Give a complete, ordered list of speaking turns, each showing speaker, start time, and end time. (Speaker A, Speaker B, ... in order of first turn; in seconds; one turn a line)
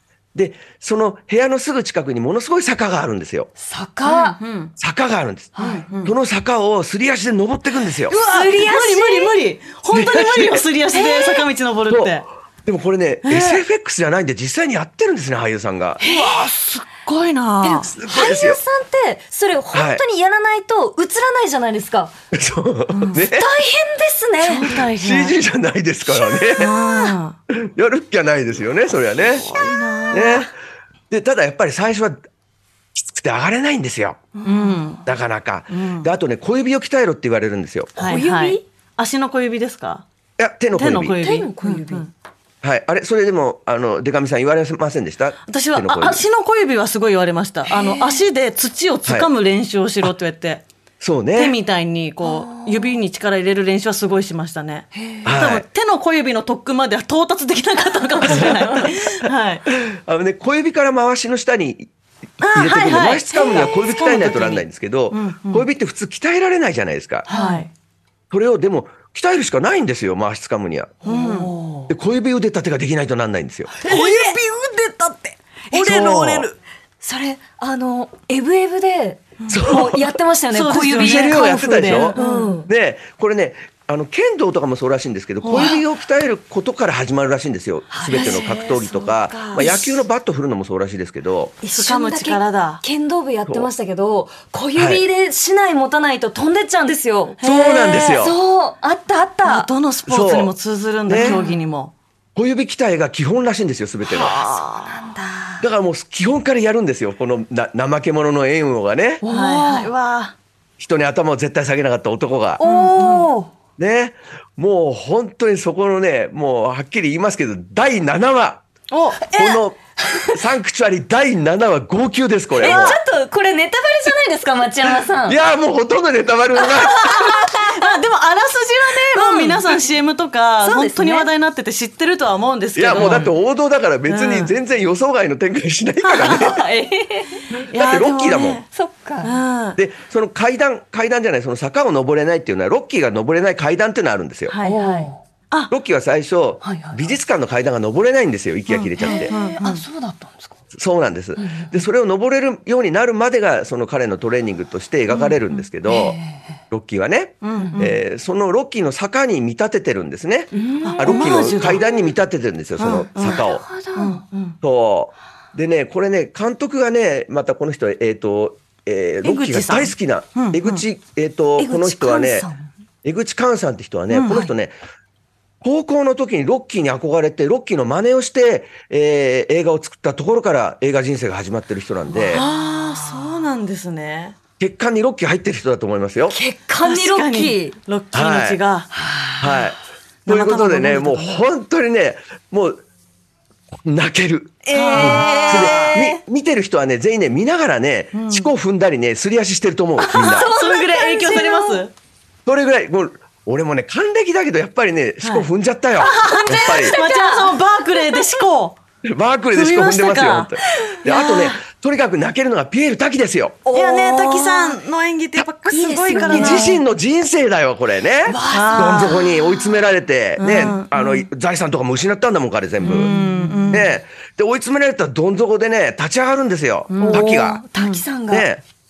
Speaker A: 0.3-3.5
Speaker B: 3.6-4.4
Speaker C: 4.0-4.7
Speaker A: 4.8-8.1
Speaker B: 5.5-5.8
Speaker C: 5.6-6.1
Speaker C: 8.1-12.2
Speaker B: 8.1-9.3
Speaker A: 9.9-10.6
Speaker B: 10.9-11.5
Speaker A: 11.9-16.0
Speaker C: 13.2-13.6
Speaker B: 16.0-16.5
Speaker C: 16.0-17.9
Speaker B: 17.6-22.1
Speaker A: 17.9-18.6
Speaker A: 19.7-20.0
Speaker A: 22.3-23.5
Speaker B: 23.1-24.8
Speaker C: 24.4-25.4
Speaker A: 24.7-26.8
Speaker C: 26.5-27.4
Speaker A: 27.5-29.5
Speaker C: 29.2-30.5
Speaker A: 30.1-30.5
Speaker A: 31.1-32.2
Speaker A: 32.9-34.3
Speaker B: 34.4-35.0
Speaker C: 34.4-35.0
Speaker A: 35.0-37.9
Speaker C: 35.7-36.1
Speaker B: 38.0-38.6
Speaker C: 38.0-40.0
Speaker A: 40.4-41.2
Speaker C: 40.7-42.1
Speaker B: 41.2-42.1
Speaker A: 42.6-46.2
Speaker C: 45.5-50.6
Speaker B: 47.7-48.2
Speaker A: 51.0-51.6
Speaker C: 51.3-59.6
Speaker B: 52.2-52.9
Speaker B: 54.9-55.4
Speaker A: 55.2-55.6
Speaker A: 58.2-58.8
Speaker A: 59.7-61.9
Speaker C: 62.4-65.7
Speaker A: 62.4-67.3
Speaker B: 67.3-67.7
Speaker C: 67.3-67.7
Speaker A: 68.3-71.0
Speaker B: 71.0-71.9
Speaker C: 71.0-71.5
Speaker A: 71.9-73.8
Speaker B: 73.8-75.2
Speaker C: 73.8-74.4
Speaker C: 74.9-76.5
Speaker A: 75.7-76.5
Speaker B: 77.0-82.7
Speaker C: 79.4-79.7
Speaker A: 79.5-80.2
Speaker C: 80.5-82.6
Speaker A: 80.8-91.5
Speaker C: 85.4-85.8
Speaker B: 87.9-89.8
Speaker C: 88.1-88.8
Speaker C: 89.5-89.9
Speaker B: 91.6-97.4
Speaker C: 91.7-92.8
Speaker A: 94.8-95.0
Speaker C: 97.4-98.2
Speaker A: 97.4-98.4
Speaker B: 98.1-99.7
Speaker C: 99.4-101.9
Speaker A: 100.1-100.5
Speaker A: 101.1-101.4
Speaker B: 101.2-101.6
Speaker A: 102.3-104.6
Speaker C: 104.0-105.0
Speaker B: 104.8-105.6
Speaker A: 105.6-109.2
Speaker B: 109.2-109.9
Speaker C: 109.3-110.3
Speaker A: 110.8-112.6
Speaker B: 112.6-113.5
Speaker C: 112.6-113.3
Speaker A: 113.8-118.6
Speaker C: 118.9-119.6
Speaker A: 119.3-119.8
Speaker B: 120.1-120.4
Speaker A: 120.3-123.0
Speaker C: 122.6-123.0
Speaker B: 122.6-125.4
Speaker A: 125.2-127.1
Speaker C: 126.6-133.3
Speaker B: 126.9-128.0
Speaker B: 129.1-129.8
Speaker B: 130.6-131.3
Speaker A: 132.8-136.6
Speaker B: 132.9-133.3
Speaker C: 134.1-134.5
Speaker C: 136.1-136.5
Speaker B: 136.2-137.5
Speaker A: 137.5-138.6
Speaker C: 137.7-138.7
Speaker B: 138.7-139.4
Speaker C: 139.2-139.8
Speaker A: 139.7-144.5
Speaker C: 144.5-145.7
Speaker B: 144.6-145.2
Speaker A: 145.7-149.3
Speaker B: 146.6-147.1
Speaker C: 148.7-149.8
Speaker B: 149.0-150.5
Speaker A: 150.7-156.2
Speaker B: 151.3-151.8
Speaker C: 155.1-155.4
Speaker B: 155.8-156.6
Speaker A: 156.7-163.6
Speaker C: 157.4-157.9
Speaker B: 157.6-157.9
Speaker B: 160.5-161.2
Speaker C: 160.8-161.8
Speaker C: 162.8-164.6
Speaker B: 163.2-164.2
Speaker A: 164.6-172.5
Speaker C: 169.2-170.8
Speaker B: 171.6-172.7
Speaker A: 173.0-174.7
Speaker C: 174.1-174.5
Speaker A: 175.6-182.4
Speaker B: 182.1-183.4
Speaker C: 182.3-184.3
Speaker A: 184.6-186.3
Speaker B: 186.3-187.8
Speaker C: 186.8-188.9
Speaker A: 188.1-188.6
Speaker B: 188.9-189.6
Speaker A: 189.4-192.8
Speaker C: 190.2-191.4
Speaker A: 193.8-200.5
Speaker C: 194.7-196.2
Speaker B: 194.9-196.1
Speaker C: 198.1-198.5
Speaker B: 200.0-201.9
Speaker C: 200.1-201.9
Speaker A: 202.4-207.0
Speaker C: 205.2-208.8
Speaker B: 206.2-208.4
Speaker A: 209.0-213.6
Speaker C: 209.5-211.6
Speaker B: 213.7-214.8
Speaker C: 213.7-216.7
Speaker B: 215.7-216.8
Speaker A: 216.1-223.1
Speaker B: 218.2-219.7
Speaker C: 218.5-219.2
Speaker C: 220.4-221.2
Speaker C: 222.8-223.9
Speaker B: 222.8-223.7
Speaker A: 223.7-227.6
Speaker C: 226.9-228.0
Speaker B: 227.0-228.5
Speaker A: 228.3-228.6